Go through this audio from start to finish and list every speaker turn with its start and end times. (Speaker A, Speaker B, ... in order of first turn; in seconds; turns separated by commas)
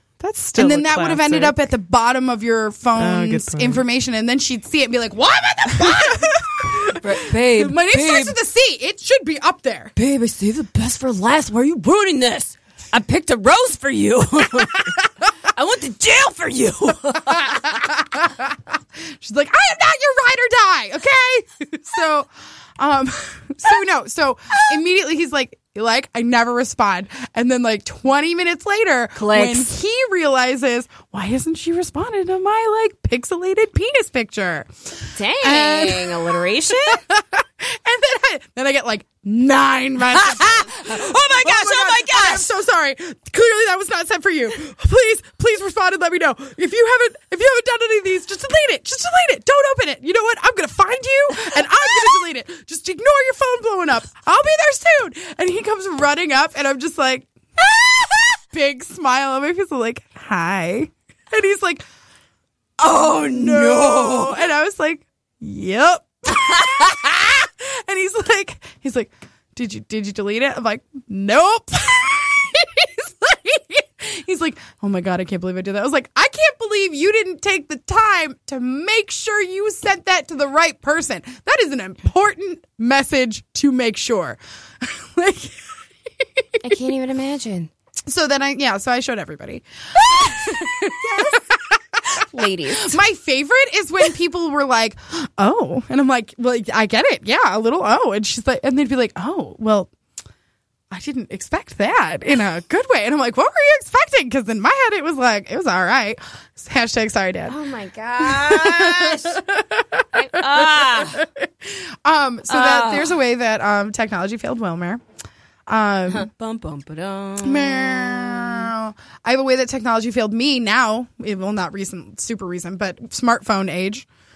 Speaker A: 0.2-1.7, Speaker B: 0.6-9.9, Speaker A: 3.0-3.8, Speaker C: 7.0-8.3, Speaker C: 10.0-14.9, Speaker C: 15.5-17.8, Speaker B: 17.3-61.9, Speaker C: 29.2-29.7, Speaker C: 35.1-37.0, Speaker C: 40.1-42.5, Speaker C: 62.8-64.4, Speaker B: 62.9-85.6, Speaker C: 66.4-66.8, Speaker B: 86.2-86.7, Speaker C: 86.6-87.7, Speaker B: 88.1-99.9, Speaker C: 90.2-91.4, Speaker C: 92.1-93.0, Speaker B: 100.9-107.6, Speaker C: 107.5-109.4, Speaker B: 108.2-115.0, Speaker C: 110.1-111.2, Speaker C: 112.5-113.2, Speaker B: 115.7-116.3, Speaker C: 116.1-118.7, Speaker B: 117.4-124.1